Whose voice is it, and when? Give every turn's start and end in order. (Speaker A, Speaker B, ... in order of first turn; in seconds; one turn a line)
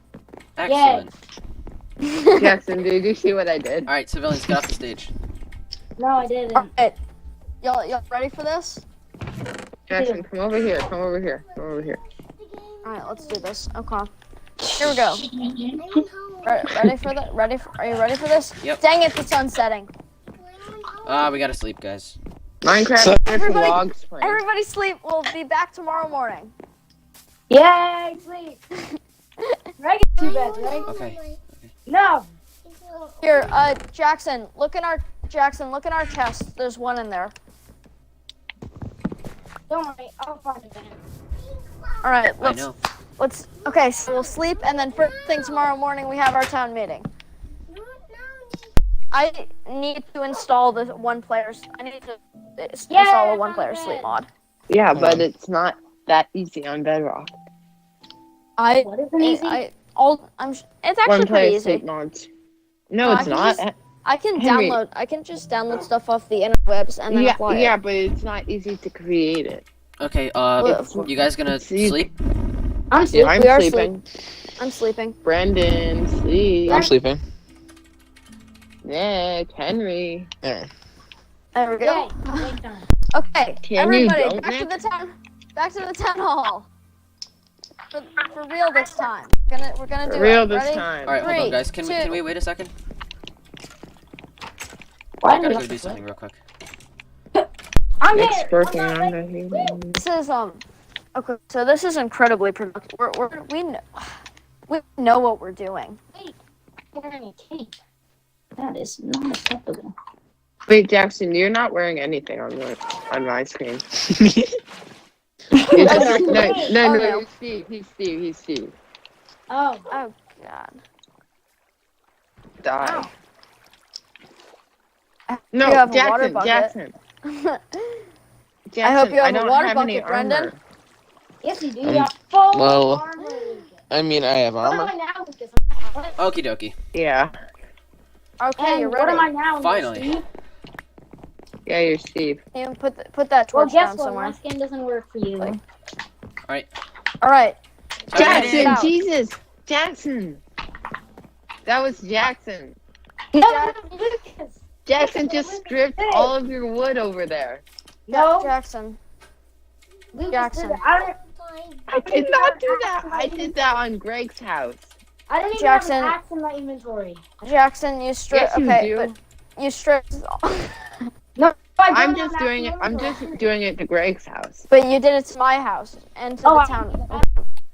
Speaker A: 0.6-1.1
Speaker B: 0.7-1.0
Speaker C: 2.0-2.5
Speaker D: 2.4-3.9
Speaker A: 3.9-5.1
Speaker B: 6.0-6.7
Speaker C: 6.5-7.0
Speaker C: 7.6-8.8
Speaker D: 9.9-12.0
Speaker B: 9.9-10.2
Speaker C: 12.8-14.1
Speaker C: 14.8-15.2
Speaker A: 14.8-15.0
Speaker E: 15.8-16.4
Speaker C: 16.4-19.9
Speaker A: 21.0-22.2
Speaker D: 22.6-24.4
Speaker E: 23.0-23.7
Speaker C: 23.4-26.5
Speaker B: 27.5-28.6
Speaker C: 28.7-29.6
Speaker B: 29.8-30.9
Speaker A: 30.9-31.7
Speaker B: 31.9-32.3
Speaker C: 33.2-37.3
Speaker B: 39.7-41.0
Speaker C: 42.0-47.1
Speaker A: 42.4-42.8
Speaker C: 49.1-54.3
Speaker B: 52.9-54.1
Speaker D: 54.7-57.4
Speaker E: 55.0-55.2
Speaker C: 58.6-61.8
Speaker B: 58.8-59.6
Speaker D: 61.0-62.3
Speaker D: 62.9-63.7
Speaker C: 63.0-67.8
Speaker D: 64.4-64.8
Speaker D: 67.1-69.6
Speaker A: 70.0-72.1
Speaker D: 70.6-72.0
Speaker C: 70.6-71.0
Speaker B: 72.9-73.3
Speaker D: 73.1-74.0
Speaker C: 73.3-73.9
Speaker C: 74.6-75.1
Speaker D: 75.2-76.9
Speaker B: 76.7-77.0
Speaker E: 76.8-77.2
Speaker D: 78.8-80.3
Speaker C: 81.5-82.5
Speaker B: 81.8-82.9
Speaker C: 83.1-86.7
Speaker D: 83.6-84.7
Speaker C: 87.9-92.2
Speaker D: 90.0-91.5
Speaker A: 91.0-92.7
Speaker B: 95.2-96.0
Speaker A: 95.3-96.4
Speaker B: 98.0-99.8
Speaker D: 98.1-100.0
Speaker C: 100.0-100.6
Speaker C: 101.1-103.8
Speaker C: 104.7-106.0
Speaker B: 106.9-107.8
Speaker B: 108.6-109.9
Speaker D: 110.7-113.8
Speaker B: 115.6-116.7
Speaker D: 115.7-118.7
Speaker C: 115.8-117.2
Speaker B: 119.5-119.9
Speaker C: 119.9-120.7
Speaker D: 122.6-123.1
Speaker B: 122.8-123.1
Speaker C: 125.3-126.7
Speaker D: 125.5-126.9
Speaker C: 127.2-128.0
Speaker D: 128.7-130.6
Speaker C: 128.8-130.5
Speaker B: 131.4-133.8
Speaker E: 131.8-133.1
Speaker E: 133.9-134.9
Speaker B: 134.6-136.2
Speaker A: 136.2-136.8
Speaker D: 136.9-137.3
Speaker C: 138.4-139.3
Speaker B: 138.6-140.3
Speaker A: 139.6-140.1
Speaker D: 141.7-142.4
Speaker C: 142.5-144.4
Speaker B: 143.5-145.6
Speaker C: 147.2-147.6
Speaker A: 148.1-148.9
Speaker C: 148.1-148.9
Speaker D: 148.1-150.4
Speaker D: 151.7-152.8
Speaker C: 153.3-153.8
Speaker B: 153.4-156.3
Speaker D: 154.9-157.6
Speaker B: 158.1-158.5
Speaker C: 158.1-159.0
Speaker B: 160.1-161.2
Speaker C: 160.3-160.8
Speaker D: 161.9-164.9
Speaker B: 161.9-163.6
Speaker B: 165.3-167.2
Speaker C: 165.6-166.2
Speaker C: 167.4-171.1
Speaker D: 168.3-169.2
Speaker B: 171.4-173.4
Speaker D: 171.9-174.7
Speaker C: 174.7-177.5
Speaker B: 176.4-177.2